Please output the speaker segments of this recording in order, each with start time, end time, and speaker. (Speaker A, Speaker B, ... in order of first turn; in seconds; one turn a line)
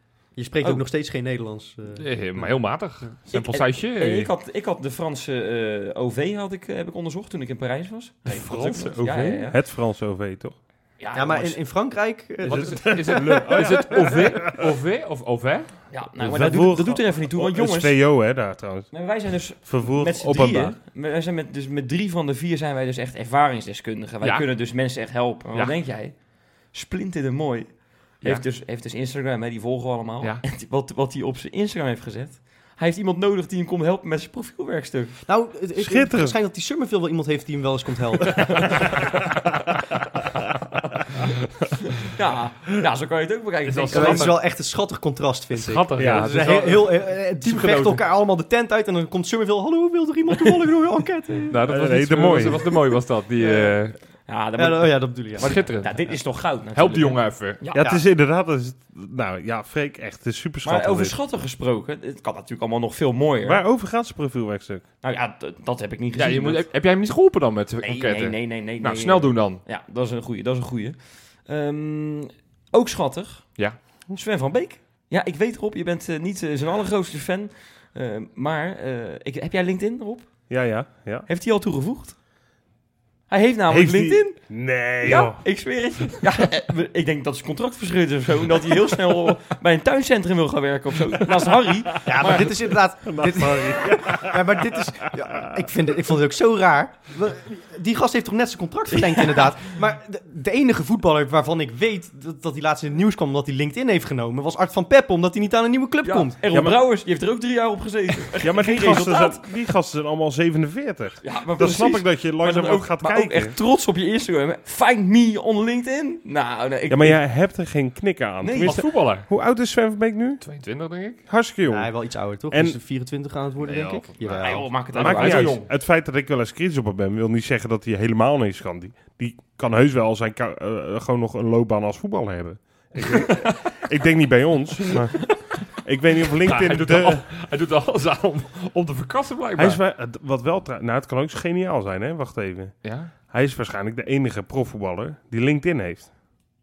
Speaker A: 0.4-2.0
Speaker B: 1.9-4.3
Speaker C: 3.3-9.6
Speaker B: 8.3-9.5
Speaker D: 9.4-10.6
Speaker C: 11.0-11.6
Speaker A: 11.1-13.6
Speaker D: 12.4-14.7
Speaker B: 12.4-15.7
Speaker C: 15.9-18.0
Speaker D: 16.2-20.8
Speaker C: 18.9-26.2
Speaker B: 24.2-24.5
Speaker C: 26.7-35.2
Speaker A: 35.3-38.8
Speaker D: 35.8-36.4
Speaker C: 41.8-44.4
Speaker B: 43.6-44.4
Speaker A: 43.9-51.7
Speaker B: 45.5-48.0
Speaker D: 46.0-46.5
Speaker B: 51.5-54.0
Speaker D: 51.6-52.7
Speaker C: 53.4-53.8
Speaker C: 54.3-57.9
Speaker A: 54.6-55.7
Speaker B: 55.4-56.2
Speaker B: 56.7-57.6
Speaker D: 57.7-61.2
Speaker A: 57.8-58.0
Speaker C: 60.6-63.6
Speaker D: 63.4-64.8
Speaker C: 65.0-66.7
Speaker B: 66.2-69.6
Speaker C: 67.8-80.5
Speaker D: 80.5-81.3
Speaker C: 81.3-82.2
Speaker C: 83.3-92.5
Speaker D: 83.7-85.4
Speaker A: 92.0-106.4
Speaker D: 92.2-95.7
Speaker C: 106.0-109.4
Speaker D: 106.5-106.8
Speaker D: 108.4-113.5
Speaker C: 111.2-117.2
Speaker D: 116.9-120.4
Speaker C: 118.4-118.8
Speaker B: 118.6-119.3
Speaker B: 120.4-121.2
Speaker D: 121.3-121.9
Speaker A: 121.7-124.7
Speaker D: 122.5-122.8
Speaker B: 123.6-125.6
Speaker C: 124.3-125.7
Speaker D: 125.0-137.2
Speaker B: 136.4-139.8
Speaker D: 139.6-142.8
Speaker B: 142.8-143.1
Speaker D: 143.3-146.1